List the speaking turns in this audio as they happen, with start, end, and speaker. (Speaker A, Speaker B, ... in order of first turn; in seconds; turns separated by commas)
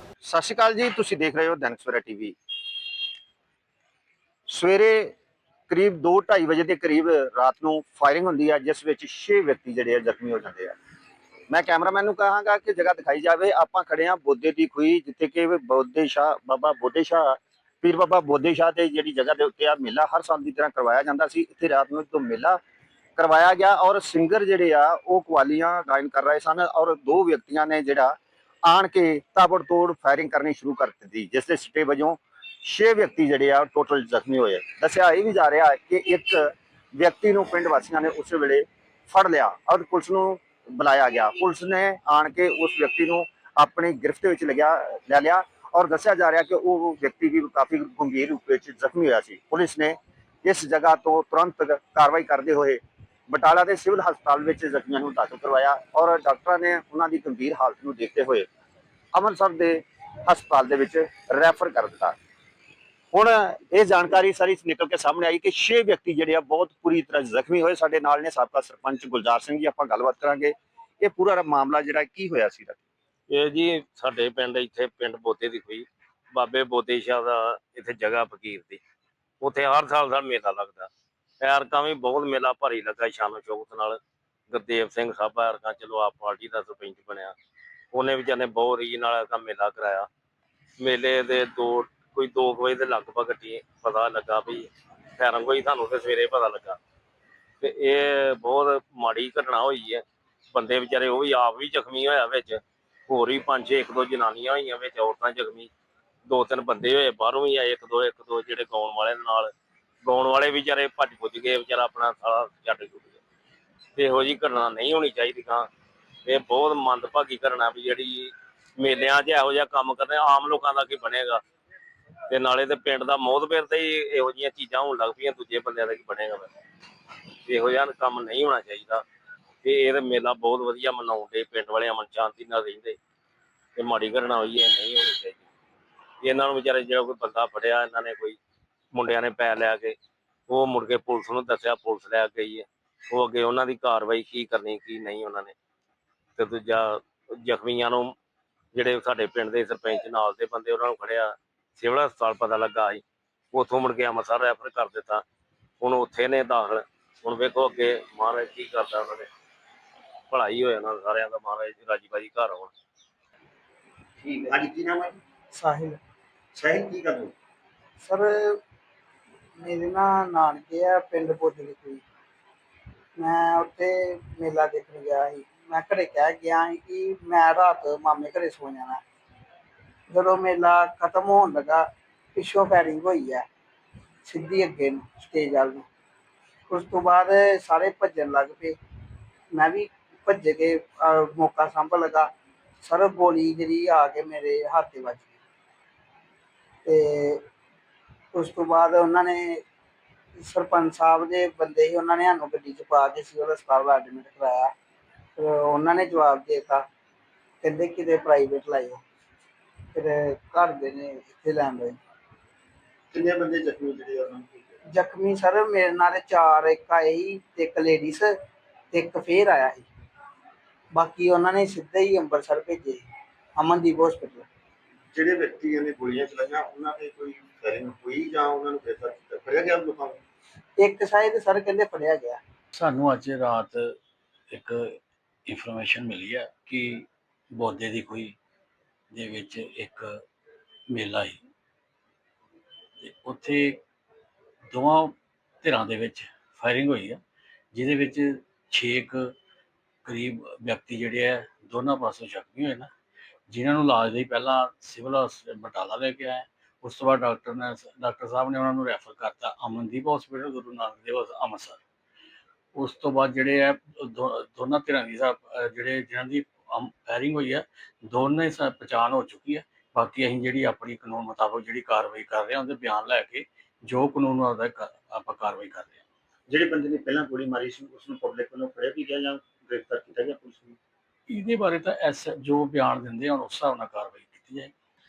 Speaker A: 0.2-2.3, Speaker A: 4.5-5.1, Speaker A: 5.7-10.7, Speaker A: 11.5-22.6, Speaker A: 23.2-28.1, Speaker A: 28.7-58.5, Speaker A: 59.1-62.1, Speaker A: 63.1-72.8, Speaker B: 73.3-78.8, Speaker B: 79.4-80.9, Speaker B: 81.4-84.0, Speaker B: 84.5-87.3, Speaker B: 87.9-90.1, Speaker B: 90.8-96.8, Speaker B: 97.6-105.7, Speaker B: 106.3-109.5, Speaker B: 110.0-113.2, Speaker B: 114.0-115.7, Speaker B: 116.2-121.4, Speaker B: 122.3-126.5, Speaker B: 127.5-129.0, Speaker B: 129.6-133.0, Speaker B: 133.8-135.4, Speaker B: 136.2-138.4, Speaker B: 138.9-139.9, Speaker B: 140.5-145.5, Speaker B: 146.3-148.1, Speaker B: 148.7-155.2, Speaker B: 155.8-159.3, Speaker B: 160.3-162.7, Speaker A: 164.2-165.2, Speaker C: 165.5-166.0, Speaker A: 166.5-167.3, Speaker C: 168.0-168.6, Speaker C: 169.6-172.0, Speaker C: 173.2-179.0, Speaker C: 180.1-183.4, Speaker C: 184.2-185.8, Speaker C: 186.7-188.8, Speaker C: 189.5-192.3, Speaker C: 192.8-195.3, Speaker C: 196.8-197.4, Speaker C: 198.3-199.6, Speaker C: 200.4-204.7, Speaker C: 205.4-206.8, Speaker C: 207.6-209.0, Speaker C: 209.9-212.0, Speaker A: 213.1-214.7, Speaker C: 214.9-218.3, Speaker C: 218.9-219.9, Speaker C: 220.9-223.0, Speaker C: 223.6-224.4, Speaker A: 225.1-230.2, Speaker C: 230.8-232.4, Speaker D: 232.7-233.9, Speaker D: 234.5-238.3, Speaker D: 239.1-240.2, Speaker D: 240.9-241.4, Speaker D: 243.0-243.8, Speaker D: 244.7-247.2, Speaker D: 247.7-249.3, Speaker D: 250.0-252.9, Speaker D: 253.5-261.8, Speaker D: 262.7-276.0, Speaker A: 276.5-280.8, Speaker D: 281.3-284.7